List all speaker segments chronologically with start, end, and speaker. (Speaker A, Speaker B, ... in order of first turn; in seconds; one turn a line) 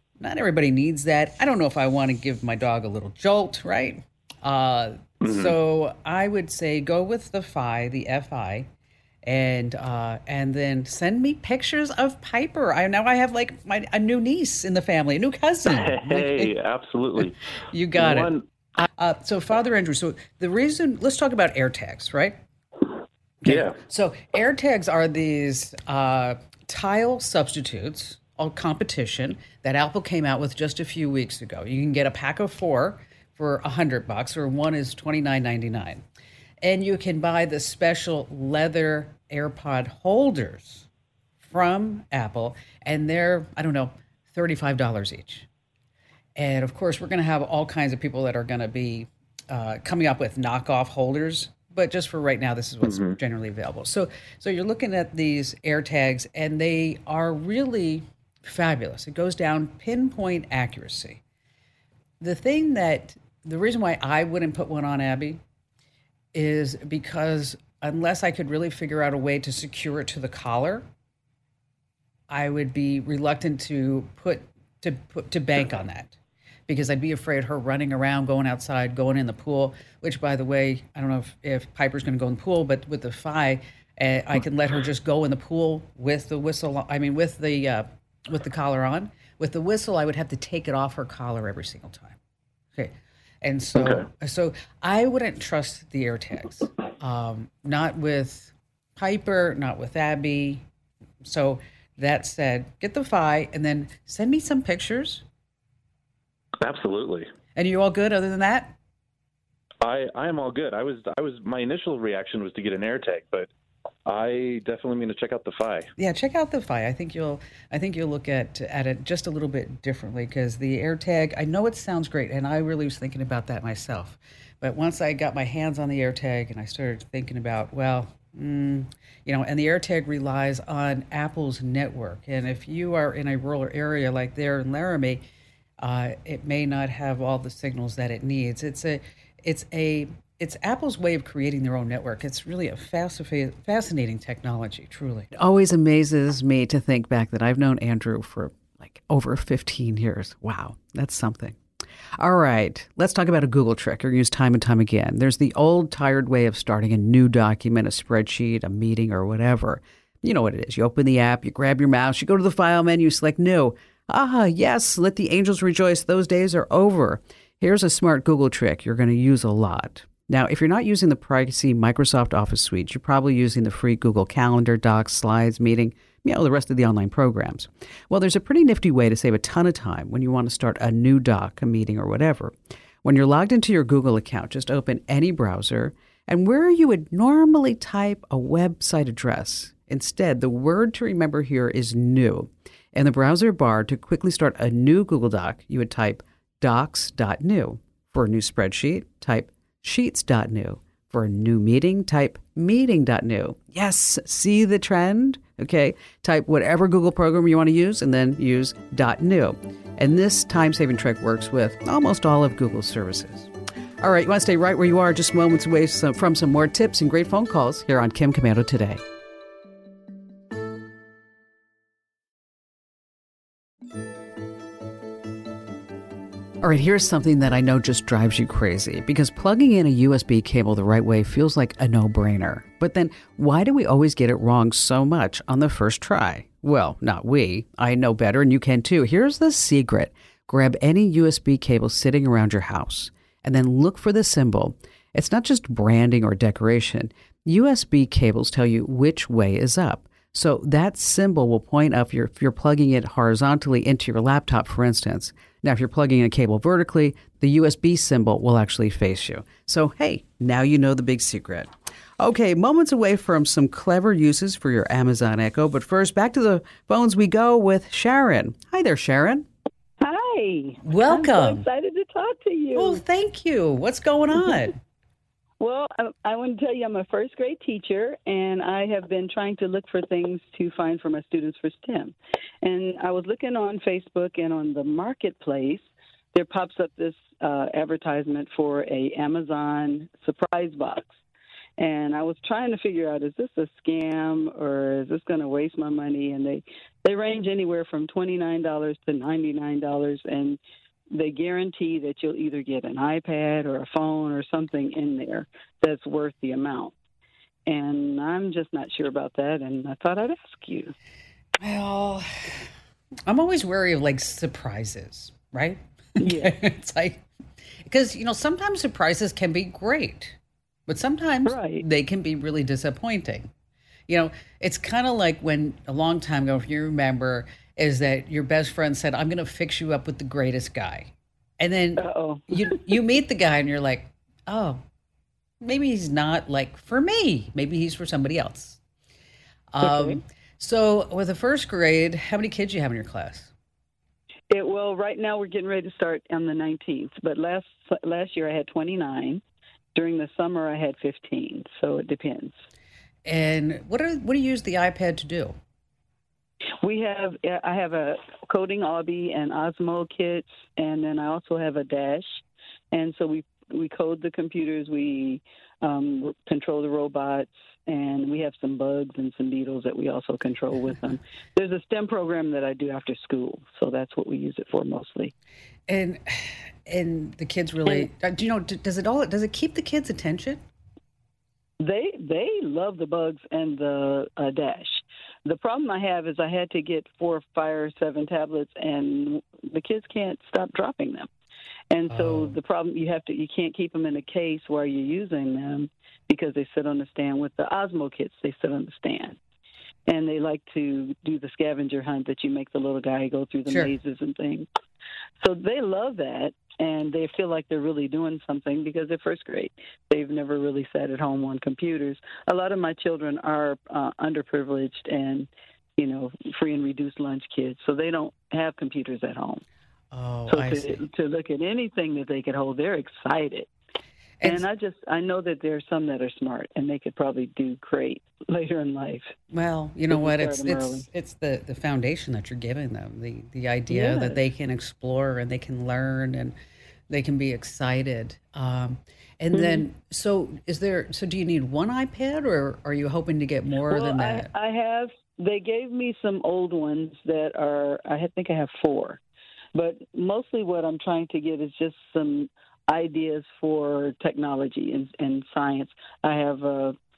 Speaker A: 0.2-8.7
Speaker B: 5.2-5.5
Speaker A: 9.2-16.5
Speaker B: 15.7-17.4
Speaker A: 17.7-22.4
Speaker B: 17.9-18.4
Speaker A: 23.4-36.0
Speaker B: 23.5-23.8
Speaker A: 36.6-40.9
Speaker A: 41.4-45.5
Speaker A: 46.4-61.2
Speaker B: 52.8-53.2
Speaker A: 62.2-65.4
Speaker A: 66.3-70.8
Speaker A: 72.3-76.2
Speaker A: 76.7-92.2
Speaker A: 92.8-100.6
Speaker B: 93.8-94.0
Speaker A: 101.2-105.2
Speaker B: 106.6-107.3
Speaker A: 107.5-108.8
Speaker B: 109.8-113.5
Speaker B: 114.0-115.9
Speaker A: 116.0-135.2
Speaker A: 135.8-151.6
Speaker A: 152.2-219.0
Speaker A: 226.6-269.5
Speaker C: 270.0-273.0
Speaker A: 270.8-271.6
Speaker A: 272.8-274.8
Speaker C: 275.6-291.1
Speaker C: 291.8-300.6
Speaker C: 301.1-306.9
Speaker C: 307.7-310.9
Speaker A: 311.6-312.7
Speaker A: 313.3-317.2
Speaker C: 316.2-316.6
Speaker A: 317.9-323.5
Speaker C: 321.5-321.8
Speaker A: 324.1-334.8
Speaker C: 332.0-332.8
Speaker A: 335.6-338.8
Speaker A: 339.7-343.5
Speaker C: 339.8-340.2
Speaker C: 344.5-349.4
Speaker C: 349.9-352.5
Speaker A: 353.3-355.6
Speaker C: 356.8-362.4
Speaker C: 362.9-375.3
Speaker A: 375.9-380.6
Speaker C: 381.8-391.3
Speaker C: 391.9-399.4
Speaker A: 392.1-392.6
Speaker C: 400.1-404.7
Speaker C: 405.4-419.6
Speaker A: 420.1-421.0
Speaker C: 420.5-423.7
Speaker C: 424.4-429.3
Speaker A: 429.5-436.6
Speaker C: 430.1-431.1
Speaker C: 433.9-434.4
Speaker A: 437.1-444.5
Speaker C: 439.5-439.8
Speaker C: 443.9-449.2
Speaker C: 449.8-457.0